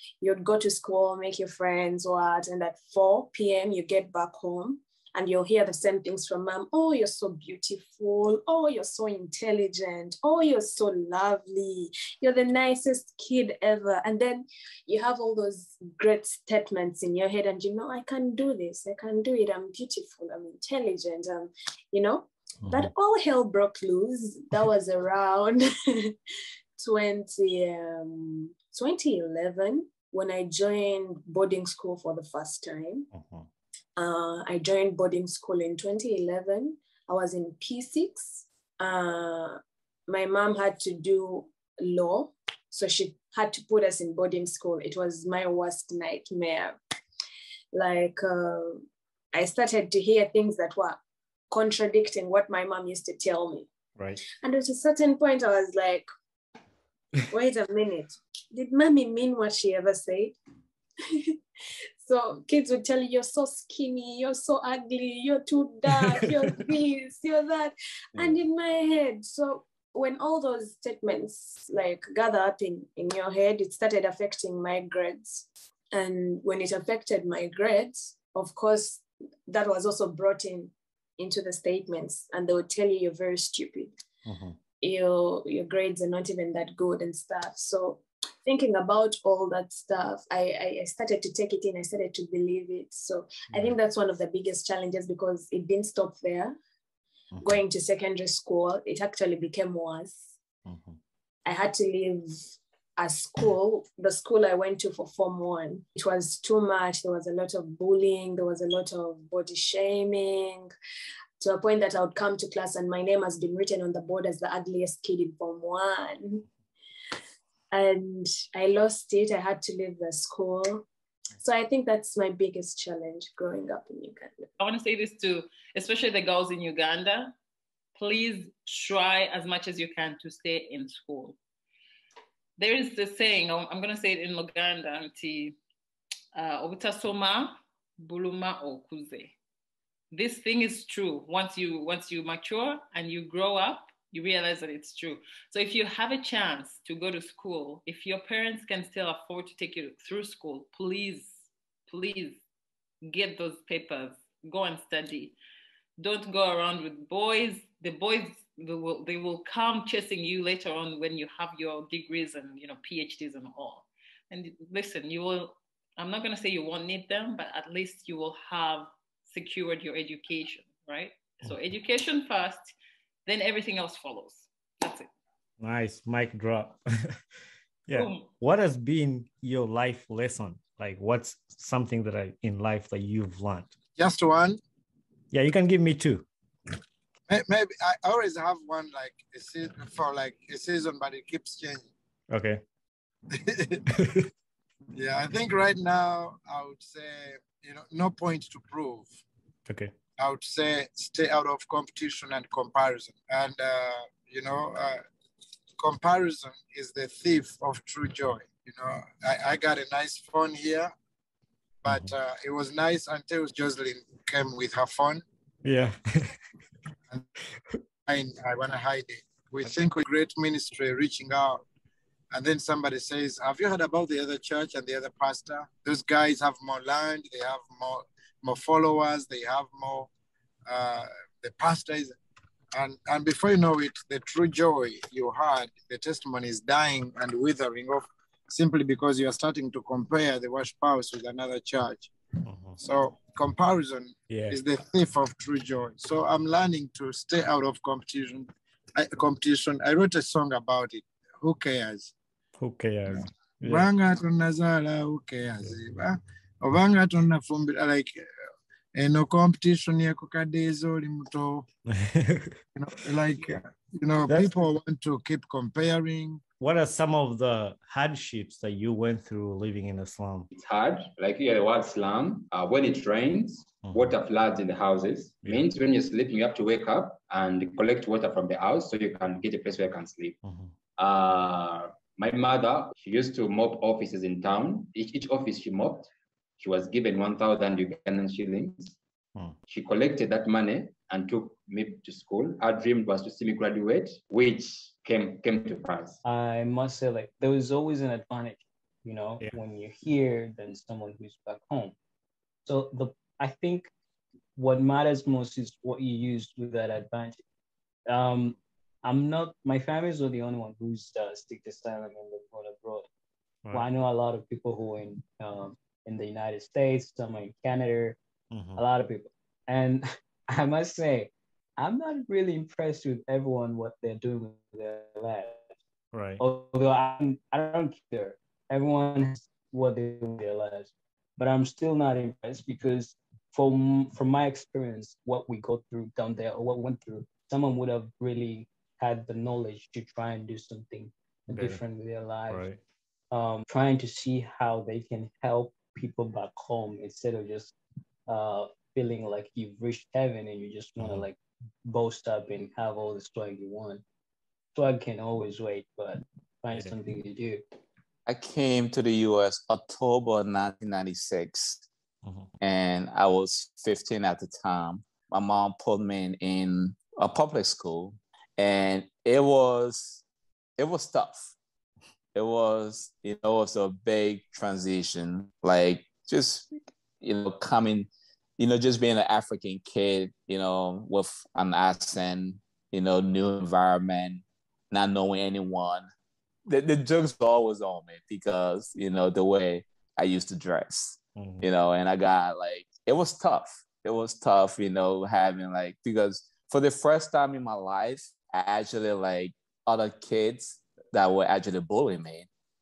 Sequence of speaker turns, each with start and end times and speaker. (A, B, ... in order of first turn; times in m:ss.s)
0:00.2-0:26.2 A
0:26.8-0:33.1 A
0:33.1-0:33.5 B
0:34.0-0:46.8 A
0:47.7-0:51.0 A
0:51.5-0:53.7 A
0:54.2-0:56.1 A
0:57.3-1:00.4 A
1:01.0-1:01.4 A
1:02.0-1:23.9 A
1:24.3-1:24.6 B
1:24.8-1:36.6 A
1:37.3-1:37.6 B
1:37.4-1:40.4 A
1:40.7-1:41.0 B
1:41.4-1:50.7 A
1:51.4-1:56.5 A
1:57.7-2:00.9 A
2:01.4-2:04.5 A
2:04.6-2:07.4 C
2:08.0-2:11.4 C
2:12.6-2:15.6 C
2:16.4-2:19.4 C
2:20.1-2:31.4 C
2:31.9-2:32.4 C
2:33.1-2:35.4 C
2:36.0-2:52.7 C
2:53.3-2:55.1 C
2:55.6-2:57.2 B
2:57.9-3:03.7 B
2:57.9-2:58.3 C
3:04.0-3:04.6 D
3:05.3-3:06.3 B
3:07.3-3:11.9 D
3:12.3-3:12.6 B
3:13.3-3:13.8 D
3:13.9-3:14.3 B
3:15.0-3:19.2 D
3:19.7-3:19.9 B
3:20.2-3:25.0 D
3:25.8-3:30.9 D
3:31.8-3:35.2 D
3:35.6-3:36.3 B
3:38.1-3:41.6 D
3:42.3-3:50.1 D
3:50.7-3:52.2 D
3:52.8-4:02.1 D
4:02.4-4:02.8 B
4:02.8-4:12.1 D
4:04.3-4:04.6 B
4:12.6-4:13.9 B
4:13.7-4:18.1 D
4:19.0-4:21.6 D
4:21.9-4:22.6 B
4:22.8-4:26.4 D
4:24.3-4:24.5 B
4:26.6-4:30.5 B
4:30.5-4:40.4 E
4:40.4-4:40.7 B
4:41.0-4:49.0 E
4:49.7-4:56.2 E
4:56.2-5:02.0 F
5:02.7-5:03.9 F
5:04.6-5:07.4 F
5:08.1-5:13.1 F
5:13.7-5:18.2 F
5:18.5-5:18.8 B
5:18.8-5:25.7 F
5:26.1-5:26.4 B
5:26.4-5:42.6 F
5:41.5-5:41.8 B
5:42.5-5:42.8 B
5:43.3-5:47.8 F
5:48.3-5:51.4 F
5:51.0-5:51.3 B
5:51.9-5:54.0 F
5:54.8-5:57.6 F
5:58.3-6:01.8 G
6:02.2-6:02.5 B
6:02.6-6:10.2 G
6:10.8-6:11.5 G
6:12.4-6:26.1 G
6:26.7-6:42.5 G
6:31.4-6:31.7 B